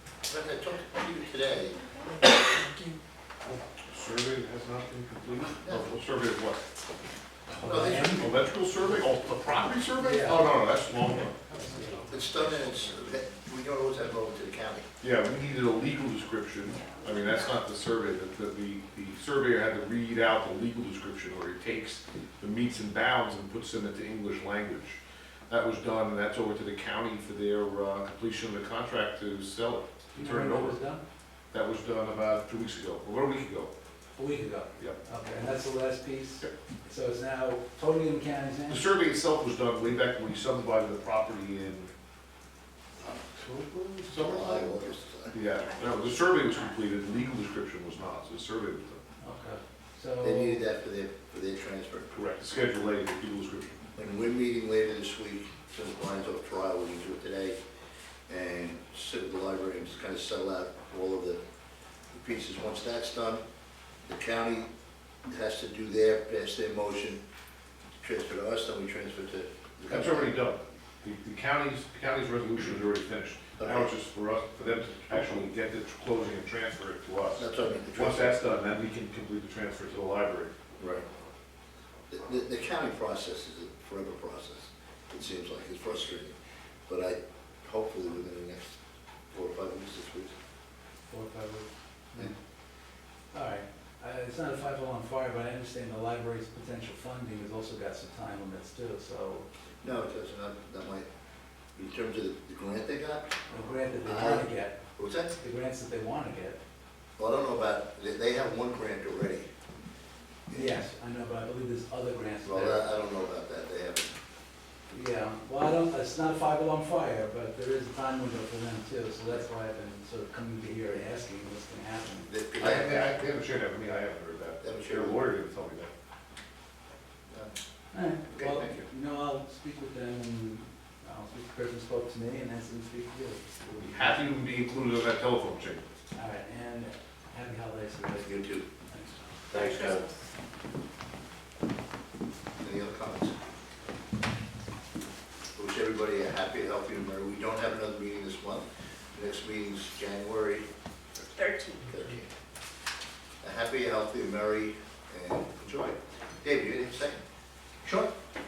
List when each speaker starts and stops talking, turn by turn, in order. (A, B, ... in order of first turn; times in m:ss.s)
0:00.3-0:01.8 A
0:01.8-0:02.1 B
0:03.4-0:06.6 C
0:05.6-0:05.9 A
0:07.5-0:08.3 A
0:07.6-0:08.4 D
0:08.0-0:13.2 C
0:10.0-0:10.5 D
0:12.1-0:14.8 A
0:15.0-0:30.8 C
0:16.7-0:17.6 B
0:30.1-0:31.0 D
0:31.5-0:33.7 C
0:34.2-0:38.9 D
0:38.7-0:41.9 C
0:43.0-0:49.0 C
0:44.1-0:45.4 A
0:45.7-0:45.9 B
0:49.2-0:50.6 D
0:50.2-0:52.1 A
0:52.1-0:53.8 C
0:54.0-0:57.6 A
0:58.3-1:01.4 A
1:02.1-1:03.4 A
1:04.0-1:04.7 A
1:05.3-1:07.2 A
1:08.0-1:10.3 A
1:09.9-1:20.5 C
1:13.6-1:13.9 A
1:15.1-1:15.4 A
1:17.4-1:18.4 A
1:20.8-1:21.0 A
1:22.1-1:26.4 A
1:26.9-1:28.8 A
1:29.3-1:30.3 A
1:31.0-1:32.3 D
1:33.3-1:39.5 D
1:39.8-1:41.1 A
1:41.8-1:43.3 A
1:43.5-1:44.8 D
1:44.0-1:45.3 A
1:45.4-1:46.6 D
1:47.2-1:49.5 A
1:50.5-1:50.8 A
1:50.5-1:52.9 D
1:52.4-1:54.2 A
1:54.9-2:02.3 D
2:02.2-2:03.2 A
2:02.6-2:05.9 C
2:04.6-2:05.2 A
2:07.9-2:14.2 D
2:08.3-2:08.9 A
2:13.8-2:15.8 C
2:16.1-2:19.4 D
2:18.2-2:18.7 A
2:19.5-2:20.0 A
2:19.5-2:20.2 B
2:22.6-2:23.3 A
2:25.5-2:30.7 A
2:31.3-2:31.8 B
2:31.9-2:32.3 A
2:33.4-2:37.2 A
2:37.8-2:38.1 A